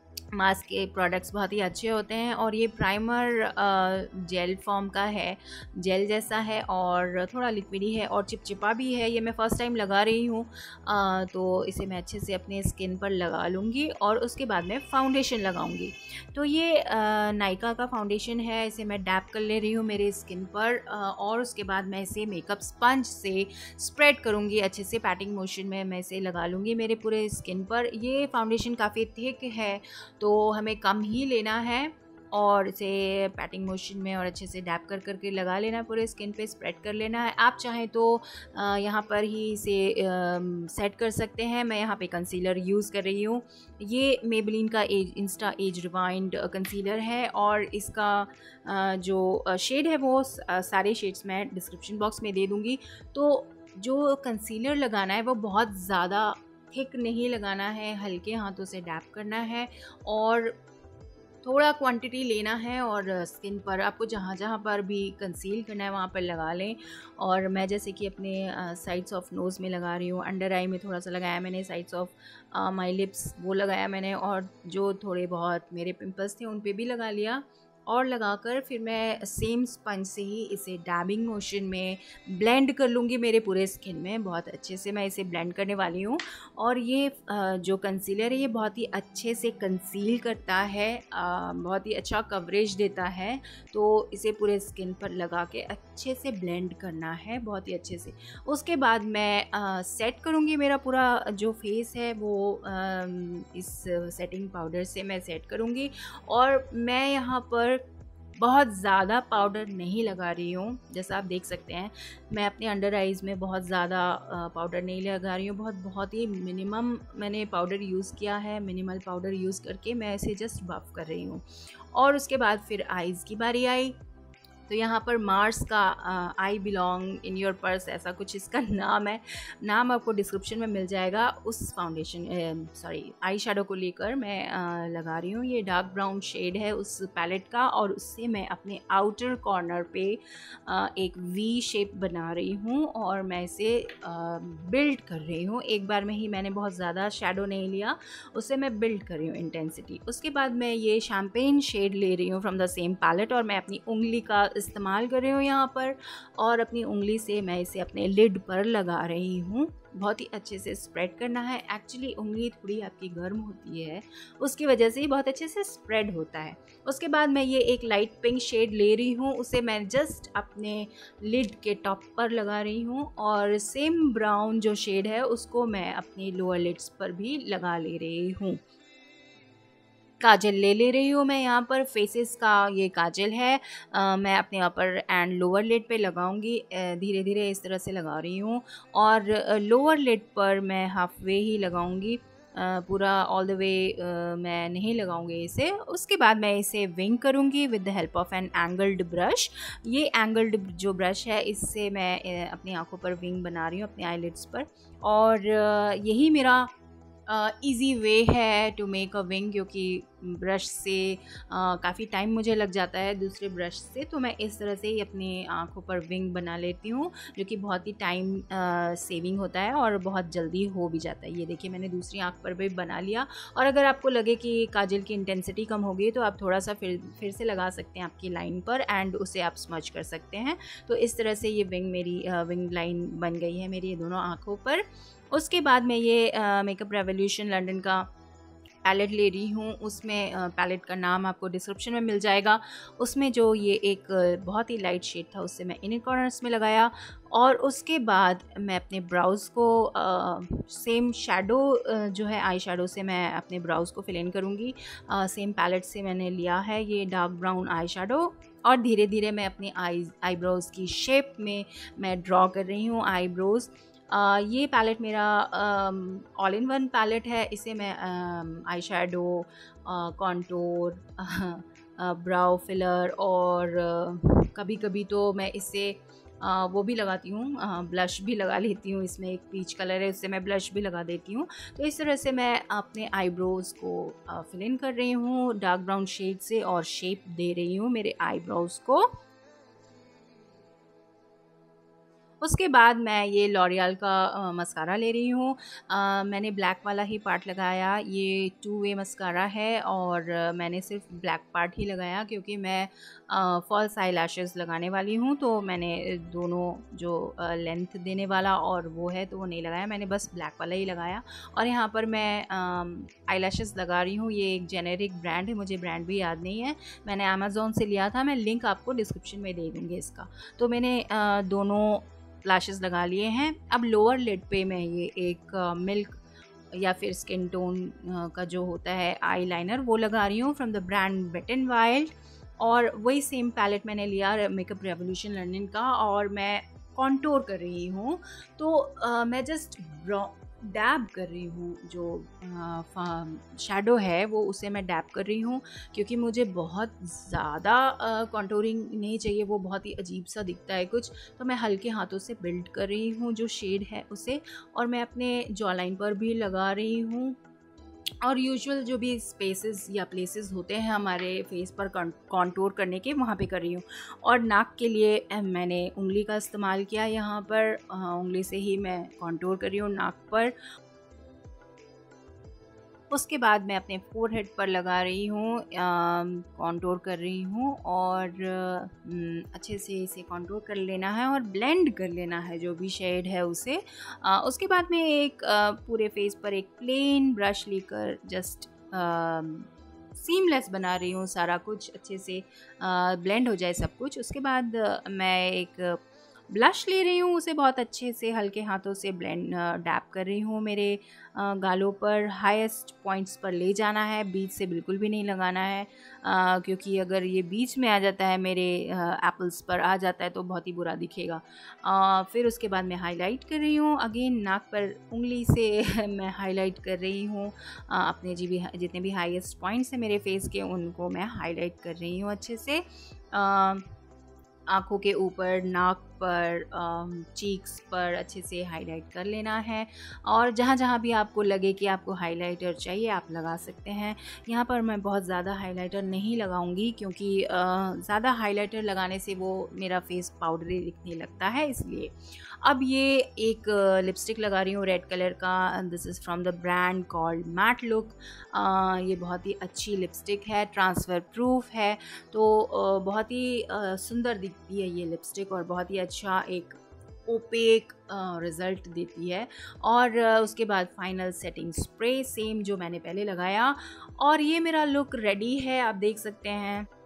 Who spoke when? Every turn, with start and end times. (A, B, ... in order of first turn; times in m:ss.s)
0:00.3-1:00.6 A
1:01.4-1:47.8 A
1:48.4-2:04.0 A
2:04.7-2:58.6 A
3:00.2-3:26.7 A
3:27.3-3:58.1 A
3:58.8-4:49.2 A
4:52.4-5:26.2 A
5:26.7-5:57.4 A
5:58.2-6:10.6 A
6:13.1-7:03.9 A
7:04.7-7:46.9 A